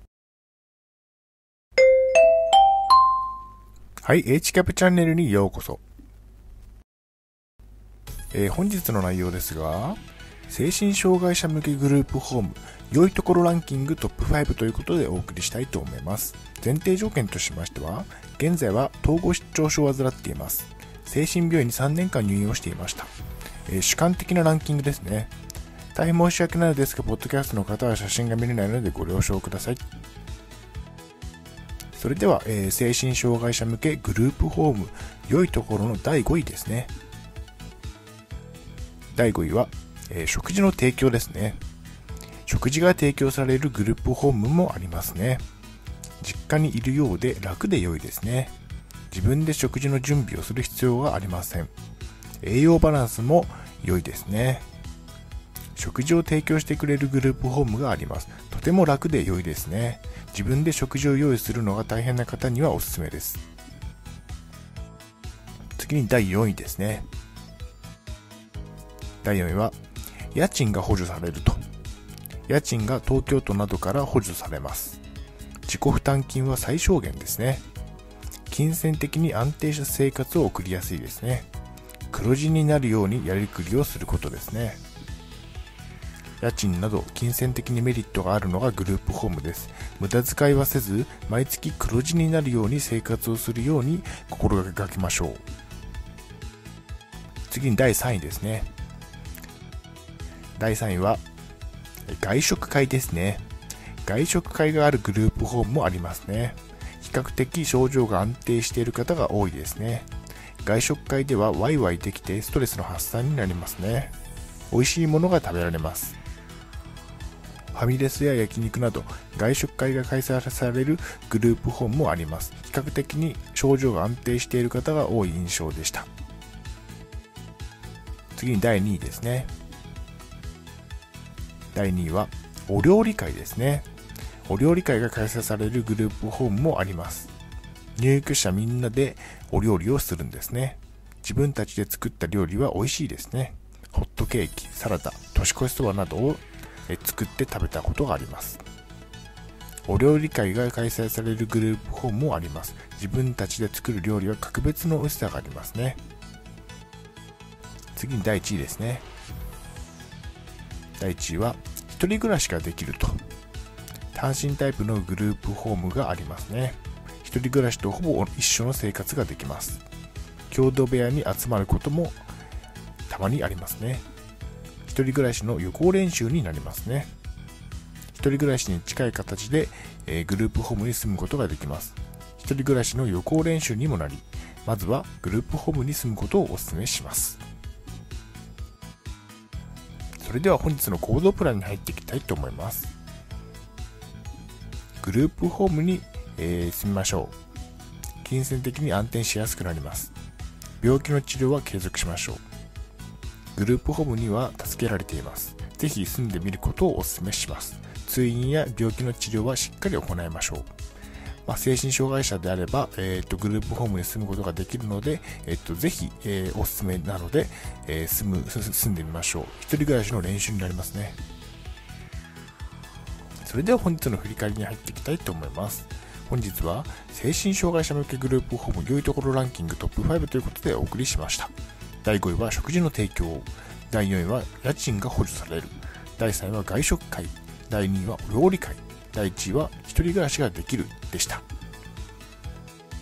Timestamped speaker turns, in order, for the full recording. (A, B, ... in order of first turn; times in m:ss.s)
0:04.0-0:05.8 A
0:08.3-0:23.1 A
0:23.7-0:25.3 A
0:25.9-0:29.8 A
0:31.9-0:36.9 A
0:39.1-0:41.6 A
0:42.4-0:45.4 A
0:46.2-0:48.5 A
0:49.1-0:51.7 A
0:52.4-0:54.6 A
0:55.7-1:03.4 A
1:05.8-1:07.1 A
1:09.2-1:09.8 A
1:10.3-1:11.6 A
1:12.5-1:15.0 A
1:15.6-1:17.6 A
1:18.5-1:21.5 A
1:22.1-1:24.8 A
1:26.4-1:35.4 A
1:37.5-1:38.7 A
1:40.6-1:41.2 A
1:42.0-1:43.4 A
1:44.0-1:50.1 A
1:50.6-1:54.1 A
1:54.7-1:56.2 A
1:57.7-2:06.1 A
2:08.4-2:09.5 A
2:11.7-2:13.9 A
2:14.5-2:17.3 A
2:18.0-2:28.6 A
2:29.8-2:36.0 A
2:37.9-2:39.0 A
2:41.0-2:43.2 A
2:44.1-2:49.8 A
2:50.5-2:52.2 A
2:53.1-2:54.0 A
2:54.8-2:57.1 A
2:58.1-3:07.4 A
3:10.2-3:12.9 A
3:15.0-3:17.3 A
3:18.2-3:20.1 A
3:20.8-3:22.4 A
3:23.5-3:30.7 A
3:31.4-3:41.2 A
3:43.4-3:51.5 A
3:52.0-4:01.4 A